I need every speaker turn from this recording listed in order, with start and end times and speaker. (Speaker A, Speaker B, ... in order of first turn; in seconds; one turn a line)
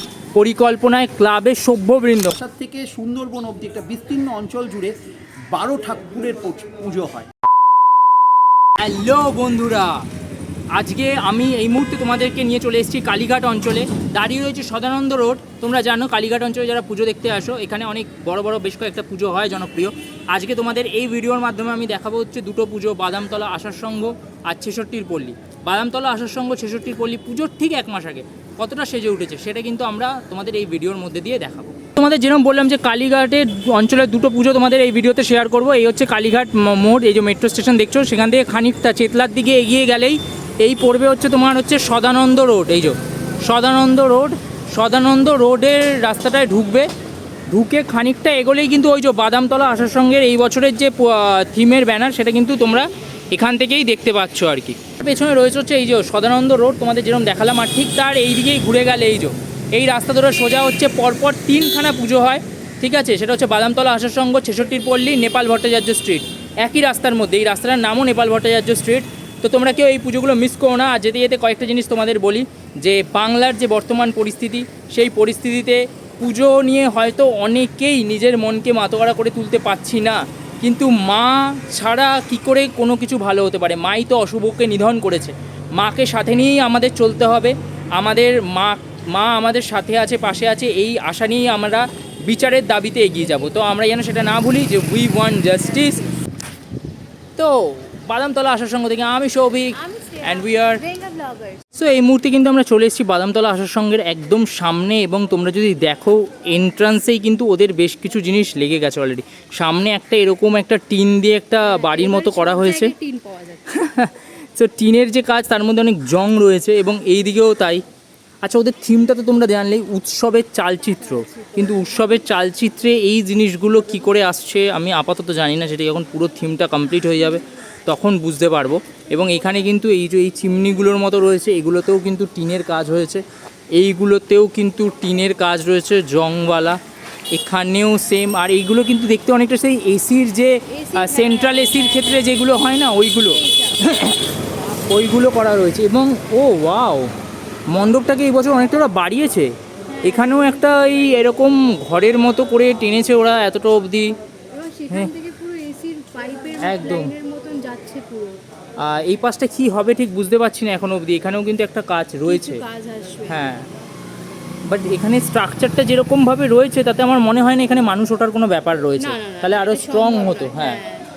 Speaker A: 0.3-2.4
Speaker B: 2.3-4.9
Speaker B: 5.5-7.3
Speaker A: 8.8-10.1
Speaker A: 10.7-46.9
Speaker A: 47.5-96.1
Speaker A: 97.4-100.8
Speaker C: 99.7-101.7
Speaker A: 101.7-112.9
Speaker C: 111.6-113.7
Speaker A: 113.7-117.8
Speaker A: 118.4-136.8
Speaker C: 121.0-122.0
Speaker A: 137.3-144.2
Speaker C: 140.7-143.8
Speaker A: 144.9-147.1
Speaker A: 147.7-154.1
Speaker C: 149.9-150.6
Speaker C: 154.5-158.4
Speaker A: 156.6-157.1
Speaker A: 158.8-162.6
Speaker C: 162.3-163.5
Speaker A: 163.3-163.7
Speaker A: 164.6-170.8
Speaker C: 169.0-171.1